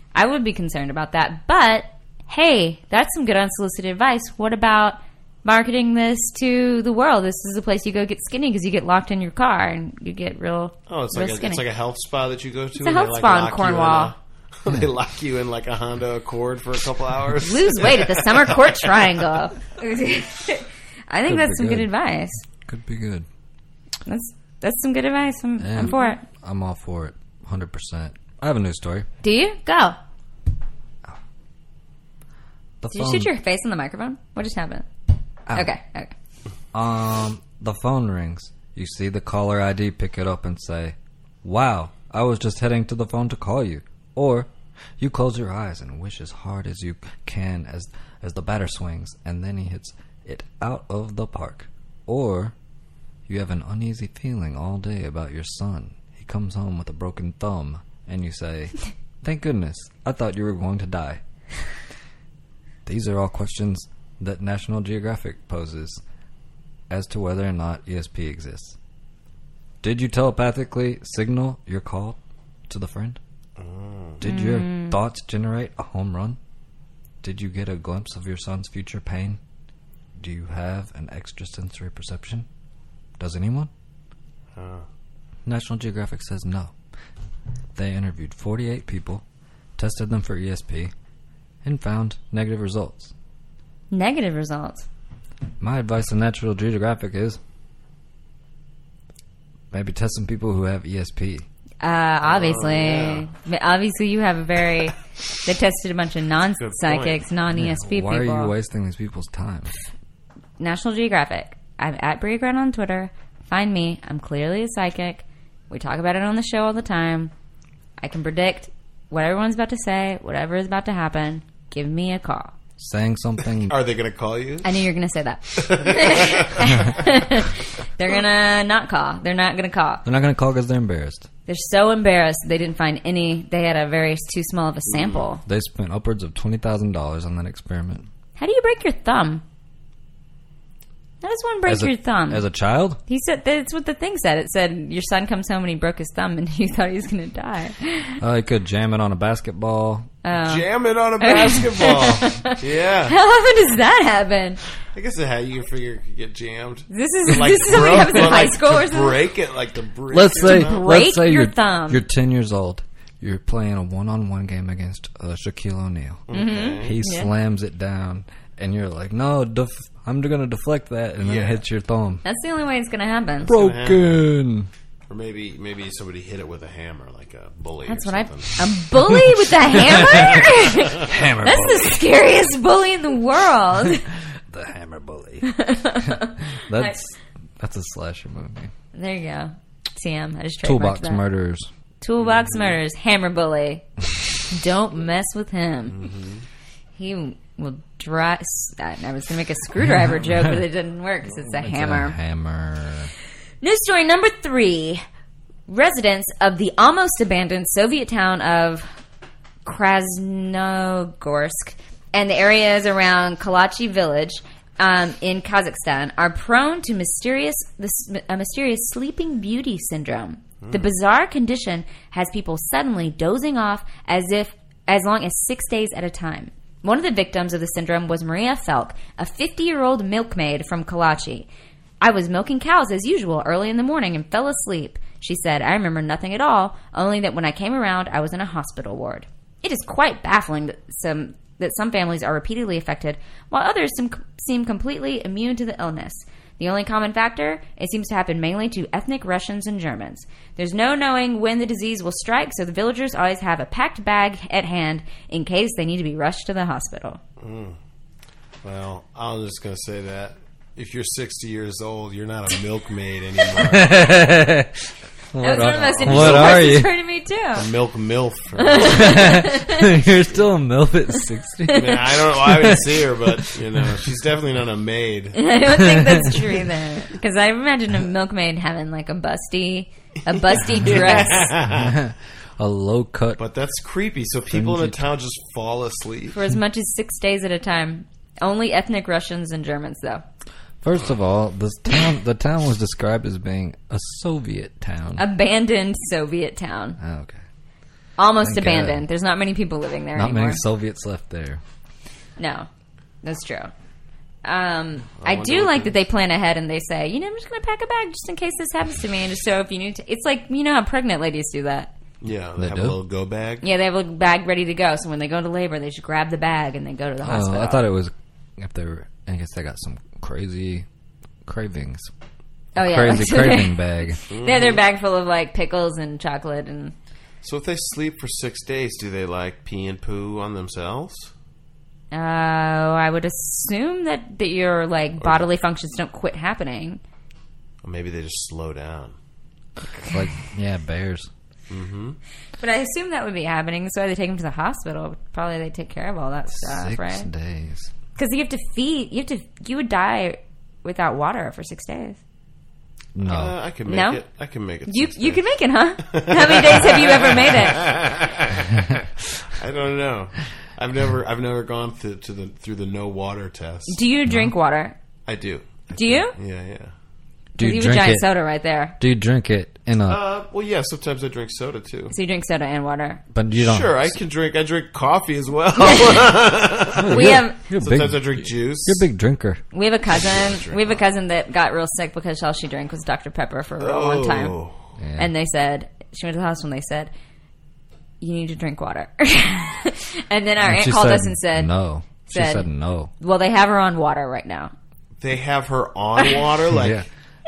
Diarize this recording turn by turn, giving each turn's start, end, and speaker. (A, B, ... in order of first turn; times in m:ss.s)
0:00.1-0:11.6 A
0:10.9-0:19.0 B
0:12.8-0:14.1 A
0:17.4-0:22.4 A
0:21.3-0:21.9 C
0:22.6-0:23.2 C
0:24.0-0:26.2 A
0:25.6-0:29.1 C
0:29.2-0:30.0 A
0:32.8-0:33.3 C
0:32.9-0:34.9 A
0:35.5-0:36.1 A
0:36.7-0:52.5 C
0:53.3-1:01.2 C
1:02.8-1:06.0 C
1:06.9-1:08.8 C
1:09.8-1:13.2 C
1:13.6-1:14.2 B
1:14.2-1:16.4 C
1:14.2-1:15.0 A
1:17.2-1:19.4 C
1:20.2-1:22.5 C
1:23.2-1:23.7 C
1:24.5-1:24.8 B
1:25.4-1:26.7 C
1:27.7-1:29.2 C
1:29.8-1:30.9 C
1:31.6-1:33.1 C
1:33.9-1:34.8 A
1:35.6-1:37.4 C
1:39.7-1:41.4 C
1:41.8-1:48.5 A
1:42.2-1:43.3 B
1:46.6-1:47.2 B
1:47.5-1:49.7 C
1:50.6-1:57.3 A
1:58.0-2:02.5 A
2:02.8-2:03.8 C
2:03.7-2:04.8 B
2:04.6-2:10.0 A
2:05.6-2:06.9 B
2:10.0-2:11.3 C
2:11.4-2:15.4 A
2:14.9-2:15.2 B
2:15.4-2:18.1 C
2:18.4-2:19.4 A
2:21.2-2:22.4 A
2:21.6-2:23.0 C
2:23.0-2:28.2 A
2:28.2-2:30.1 C
2:30.2-2:32.6 A
2:30.3-2:33.2 B
2:33.1-2:34.6 A
2:34.9-2:40.8 B
2:36.9-2:39.2 A
2:40.1-2:46.2 C
2:40.3-2:42.0 A
2:46.3-2:47.0 B
2:46.3-2:47.3 A
2:46.8-2:52.2 C
2:51.2-2:51.6 B
2:52.2-2:53.5 A
2:53.4-2:54.2 B
2:53.4-2:54.7 C
2:55.1-2:58.6 B
2:57.8-3:04.0 A
2:59.7-3:02.0 C
2:59.9-3:00.5 B
3:04.5-3:08.7 C
3:05.4-3:07.0 A
3:08.9-3:11.2 A
3:10.6-3:11.7 C
3:12.0-3:13.8 A
3:12.2-3:12.8 B
3:14.5-3:16.0 A
3:15.9-3:16.4 B
3:17.0-3:22.2 A
3:21.6-3:23.1 C
3:23.6-3:25.0 A
3:25.7-3:28.9 A
3:29.6-3:51.5 A
3:40.6-3:40.9 B
3:52.0-4:17.2 A
4:17.4-4:17.8 B
4:18.6-4:24.1 B
4:23.6-4:24.8 C
4:25.3-4:26.9 C
4:25.4-4:27.7 A
4:25.8-4:26.8 B
4:27.5-4:29.4 B
4:28.6-4:29.9 A
4:28.8-4:33.3 C
4:31.7-4:35.4 B
4:35.3-4:41.5 A
4:40.8-4:42.0 B
4:41.7-4:43.4 C
4:43.4-4:46.4 B
4:44.5-4:45.1 C
4:46.3-4:50.2 A
4:50.8-4:55.2 C
4:55.2-4:57.0 A
4:57.0-4:57.4 C
4:58.2-5:00.6 A
4:58.4-4:59.1 C
5:00.1-5:01.6 C
5:02.4-5:02.7 A
5:03.2-5:03.7 A
5:04.4-5:11.9 A
5:05.2-5:06.0 B
5:12.2-5:13.6 B
5:12.6-5:13.0 C
5:13.6-5:17.8 A
5:17.2-5:20.8 C
5:21.4-5:22.1 C
5:22.7-5:24.2 C
5:22.7-5:26.9 A
5:24.3-5:24.8 B
5:27.4-5:31.3 B
5:32.1-5:37.0 A
5:35.2-5:35.5 B
5:37.8-5:39.2 B
5:40.1-5:41.3 C
5:41.7-5:42.2 B
5:42.6-5:47.3 A
5:46.5-5:47.9 C
5:48.2-5:52.2 A
5:53.1-5:53.6 C
5:53.2-5:55.4 B
5:53.8-5:54.2 A
5:54.8-5:57.9 A
5:56.0-6:04.0 B
6:03.9-6:05.0 A
6:04.3-6:04.5 C
6:05.3-6:06.9 B
6:05.9-6:06.3 A
6:07.6-6:08.3 C
6:07.6-6:09.0 A
6:09.0-6:10.3 C
6:10.1-6:12.1 B
6:12.1-6:13.2 A
6:13.3-6:14.1 C
6:13.5-6:19.0 B
6:17.0-6:19.6 C
6:17.1-6:17.6 A
6:19.7-6:24.5 A
6:20.1-6:21.0 B
6:23.8-6:24.8 B
6:25.0-6:25.3 C
6:25.2-6:27.1 A
6:28.2-6:31.7 A
6:30.6-6:33.1 C
6:32.2-6:32.6 A
6:33.2-6:34.7 A
6:35.2-6:37.0 B
6:36.7-6:37.0 C